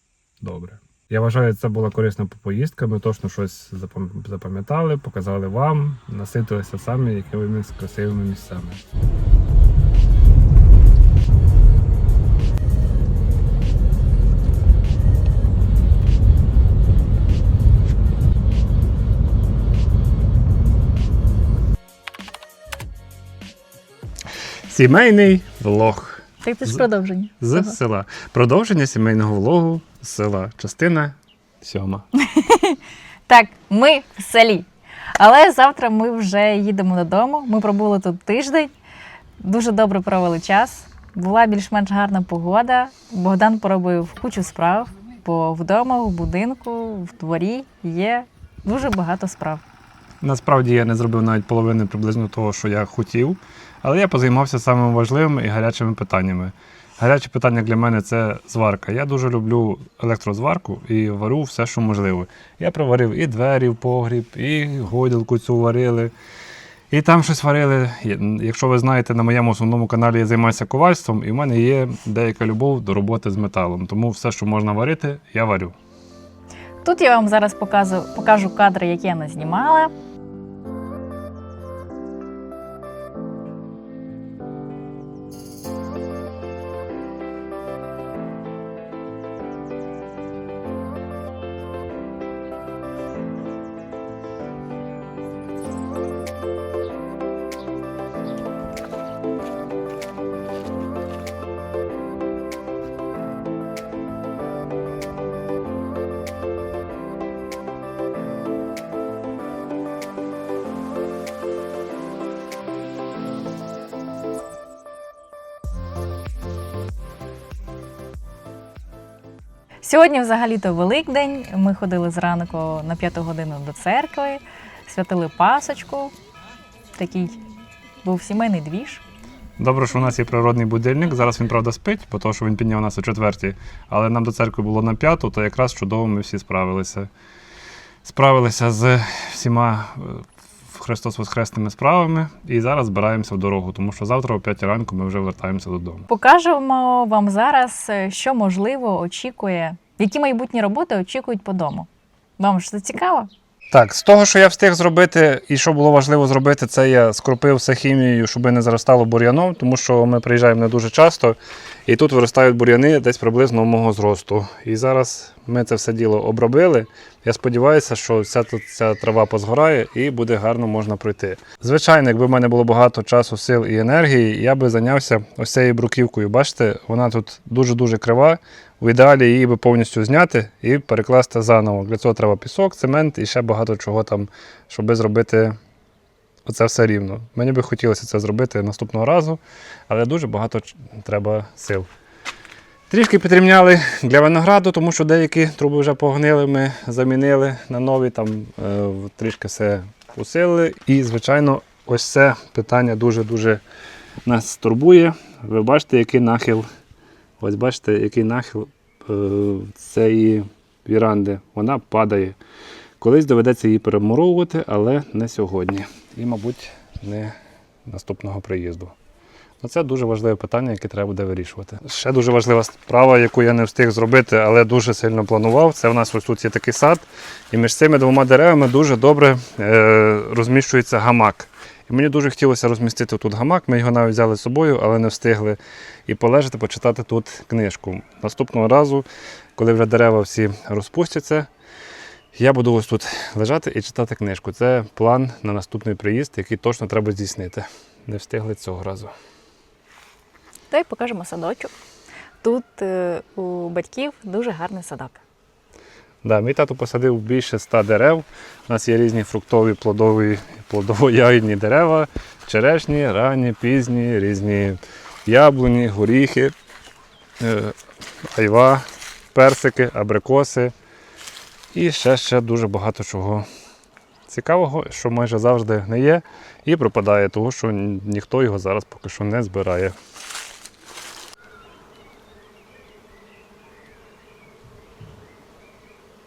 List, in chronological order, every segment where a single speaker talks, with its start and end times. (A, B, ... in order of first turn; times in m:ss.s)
0:00.4-0:08.8 A
0:24.7-0:26.9 A
0:26.4-0:27.8 B
0:27.4-0:32.0 A
0:32.2-0:38.7 B
0:39.4-0:49.6 B
0:50.2-1:06.1 A
1:06.9-1:15.8 A
1:16.8-1:19.9 B
1:59.8-2:06.1 B
2:07.0-2:07.4 B
2:08.0-2:09.0 B
2:09.6-2:17.1 A
2:18.0-2:26.1 A
2:26.1-2:33.3 B
2:33.7-3:05.6 A
3:06.4-3:11.9 A
3:12.9-3:23.6 A
3:24.2-3:26.6 A
3:27.4-3:32.4 A
3:33.0-3:37.3 A
3:37.8-3:38.9 A
3:39.6-4:01.5 A
4:02.3-4:09.1 A
4:10.7-4:11.7 B
4:12.4-4:15.2 B
4:16.2-4:26.5 A
4:27.4-4:27.8 A
4:28.3-4:30.7 A
4:31.7-4:33.4 A
4:34.3-4:39.9 A